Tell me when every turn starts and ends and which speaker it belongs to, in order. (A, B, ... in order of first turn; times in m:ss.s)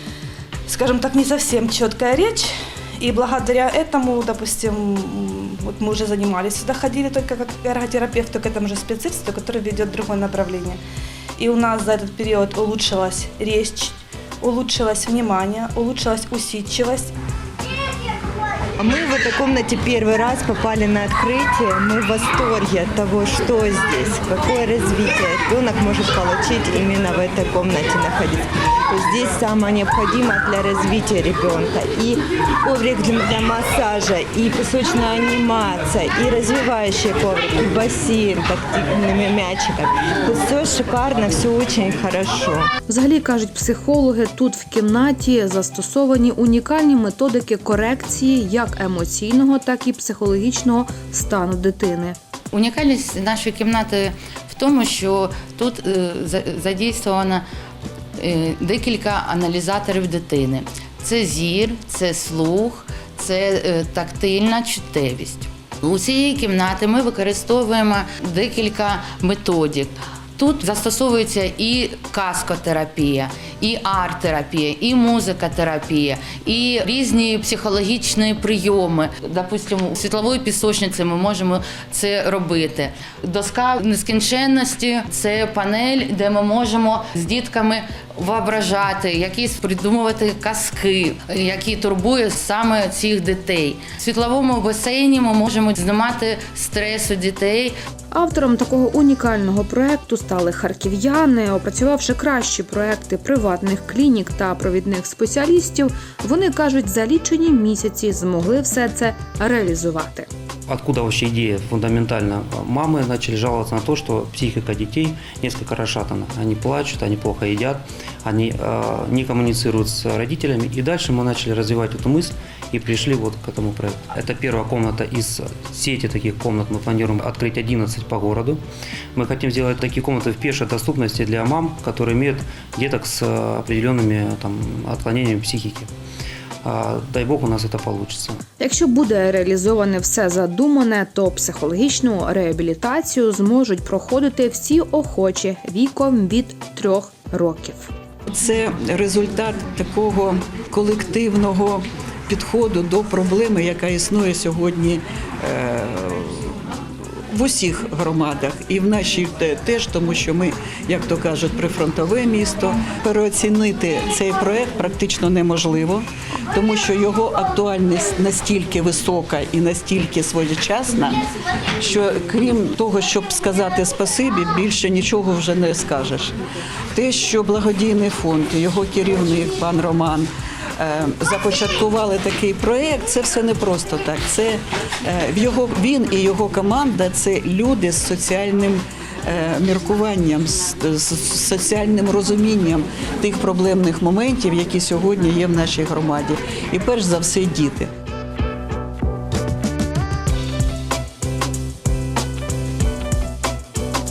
0:00.7-0:10.8 A
0:11.4-0:17.1 A
0:18.8-0:42.7 B
0:42.9-0:52.2 C
0:52.5-0:57.4 D
0:58.2-1:37.7 D
1:38.1-1:50.3 C
1:50.7-2:08.6 E
2:09.1-2:15.9 E
2:16.6-2:18.4 E
2:18.6-2:27.9 C
2:28.3-2:36.5 F
2:37.3-2:51.2 F
2:51.8-2:56.4 F
2:56.9-3:17.9 F